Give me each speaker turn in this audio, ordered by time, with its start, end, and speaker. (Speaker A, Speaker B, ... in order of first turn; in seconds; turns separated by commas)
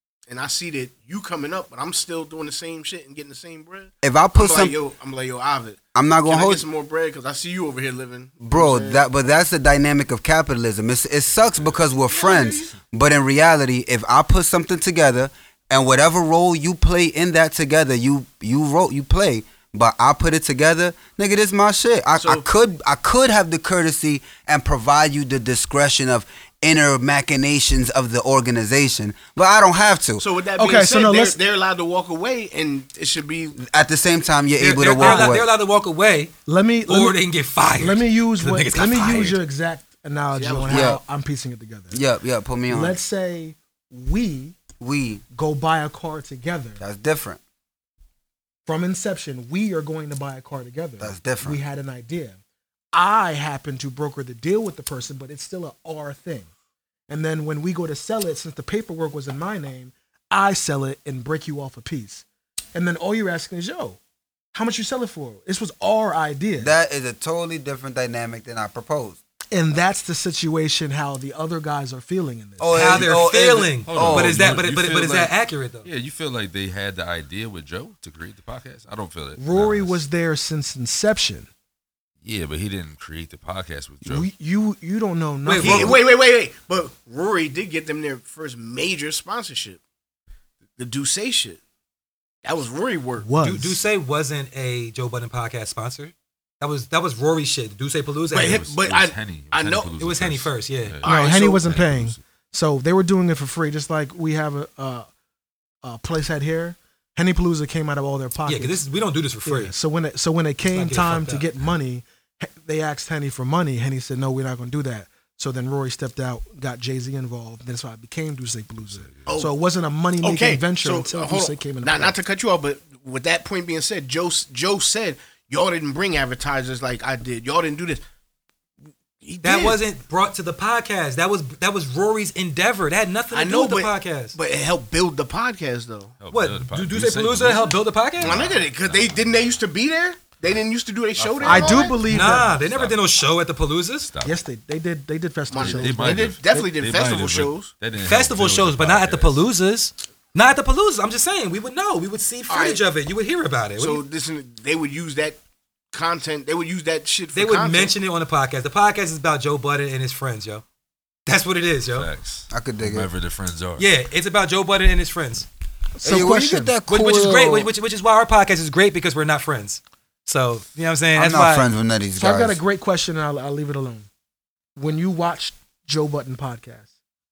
Speaker A: 0.3-9.0, Speaker B: 4.0-4.8, Speaker B: 6.0-6.6, Speaker B: 8.4-30.2, Speaker A: 12.1-12.8, Speaker A: 22.2-22.4, Speaker A: 30.2-33.6, Speaker C: 30.6-31.4, Speaker B: 33.6-35.5, Speaker D: 34.6-36.3, Speaker C: 35.0-35.3, Speaker C: 36.5-37.2, Speaker D: 36.9-39.4, Speaker C: 37.8-42.0, Speaker A: 40.3-41.0, Speaker B: 40.7-41.0, Speaker B: 41.9-43.0, Speaker C: 42.7-44.6, Speaker B: 44.8-45.2, Speaker C: 45.3-46.8, Speaker B: 46.8-47.4, Speaker C: 48.7-52.4, Speaker B: 51.0-51.6, Speaker C: 52.9-56.5, Speaker C: 57.1-64.0, Speaker C: 64.5-66.7, Speaker B: 66.6-69.2, Speaker C: 69.5-73.1, Speaker B: 72.6-74.3, Speaker D: 72.7-75.9, Speaker E: 73.9-75.3, Speaker E: 75.8-80.0, Speaker C: 79.4-81.5, Speaker E: 82.2-84.3, Speaker C: 84.0-86.1, Speaker D: 85.4-86.0, Speaker A: 85.6-89.8, Speaker A: 90.8-91.6, Speaker A: 92.4-93.3, Speaker C: 93.2-93.8, Speaker D: 93.4-98.7, Speaker A: 98.3-99.9, Speaker E: 98.4-102.2, Speaker D: 100.0-101.0, Speaker A: 101.0-101.7, Speaker C: 101.1-105.1, Speaker C: 105.8-108.8, Speaker D: 108.5-109.7, Speaker C: 109.5-122.2, Speaker D: 110.6-111.5, Speaker E: 119.0-119.3, Speaker A: 119.3-119.5, Speaker A: 120.2-128.0, Speaker A: 129.2-129.8, Speaker D: 129.4-134.4, Speaker A: 133.3-136.1, Speaker E: 136.2-139.6, Speaker D: 136.3-138.5, Speaker A: 138.2-142.0, Speaker E: 141.2-143.0, Speaker C: 141.4-142.5, Speaker D: 142.1-144.1, Speaker E: 144.0-144.4, Speaker C: 144.2-146.7, Speaker A: 145.5-147.7, Speaker E: 145.6-149.4, Speaker D: 148.0-154.0, Speaker A: 152.5-152.8, Speaker A: 153.8-155.4, Speaker A: 155.9-157.9, Speaker D: 157.3-160.6, Speaker D: 161.3-162.1, Speaker E: 161.9-163.9, Speaker B: 162.5-163.1, Speaker D: 163.8-165.5, Speaker C: 166.0-166.7, Speaker B: 166.0-167.7, Speaker D: 166.9-171.7, Speaker B: 171.2-172.6, Speaker C: 172.2-174.1, Speaker C: 174.8-176.9